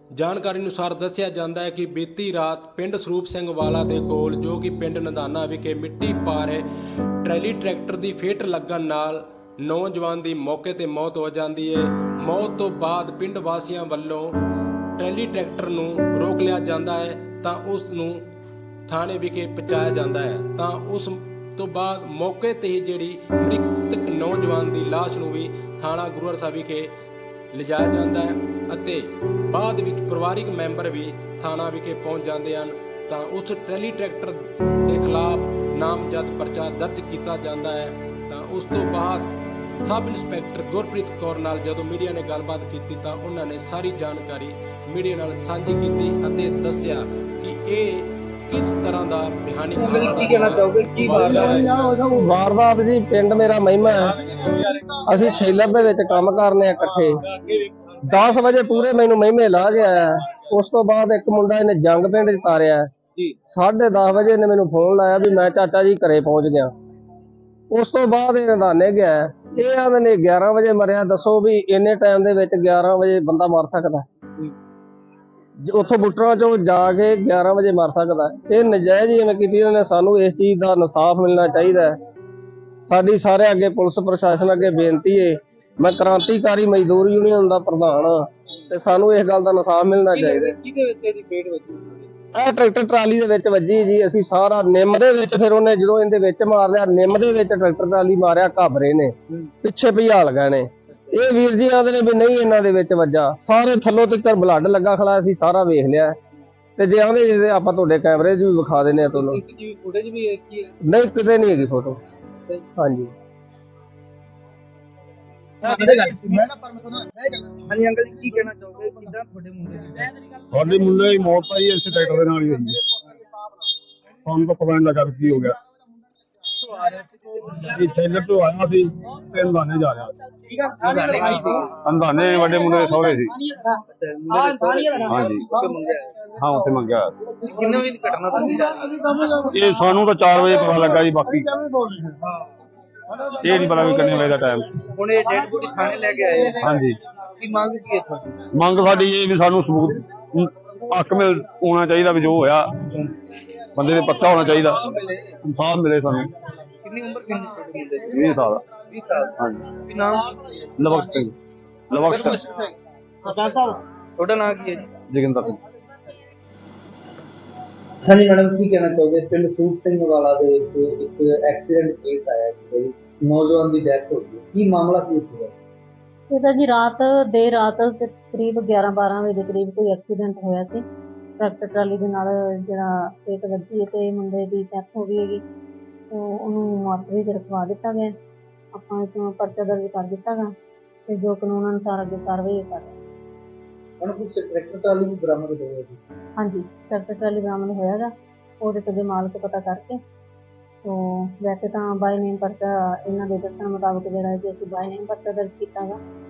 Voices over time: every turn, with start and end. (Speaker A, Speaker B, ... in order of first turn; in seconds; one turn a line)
Speaker A: 0.1-6.7
Speaker A: 7.2-14.3
Speaker A: 15.0-18.3
Speaker A: 18.9-26.9
Speaker A: 27.5-51.8
Speaker B: 49.8-52.0
Speaker C: 52.1-54.3
Speaker C: 55.0-57.2
Speaker C: 58.0-62.9
Speaker C: 63.4-66.7
Speaker C: 67.7-74.0
Speaker C: 75.6-82.0
Speaker C: 82.8-90.5
Speaker B: 90.1-92.1
Speaker C: 92.3-106.1
Speaker C: 106.8-109.4
Speaker B: 109.1-110.7
Speaker C: 110.9-112.0
Speaker C: 112.8-113.1
Speaker B: 115.6-116.2
Speaker B: 117.3-120.1
Speaker D: 120.5-122.8
Speaker D: 124.2-125.6
Speaker D: 127.5-130.1
Speaker B: 130.5-131.8
Speaker D: 131.8-133.3
Speaker B: 133.5-136.2
Speaker D: 135.1-135.5
Speaker D: 136.4-137.1
Speaker B: 137.3-139.4
Speaker D: 139.5-141.5
Speaker D: 143.4-144.8
Speaker B: 144.9-146.7
Speaker D: 146.6-147.0
Speaker B: 147.4-148.4
Speaker D: 148.5-153.0
Speaker D: 153.8-154.8
Speaker B: 154.5-155.3
Speaker D: 155.4-156.3
Speaker B: 156.8-158.3
Speaker D: 158.1-158.6
Speaker B: 158.8-160.6
Speaker D: 159.4-159.7
Speaker D: 160.8-161.4
Speaker D: 161.9-162.4
Speaker B: 162.1-162.7
Speaker B: 163.2-164.9
Speaker D: 165.1-165.6
Speaker B: 168.0-175.5
Speaker E: 176.3-180.8
Speaker E: 181.4-185.4
Speaker E: 186.1-188.2
Speaker E: 188.7-190.5
Speaker E: 191.1-193.0
Speaker B: 194.0-196.0
Speaker E: 196.4-200.0
Speaker E: 200.8-206.0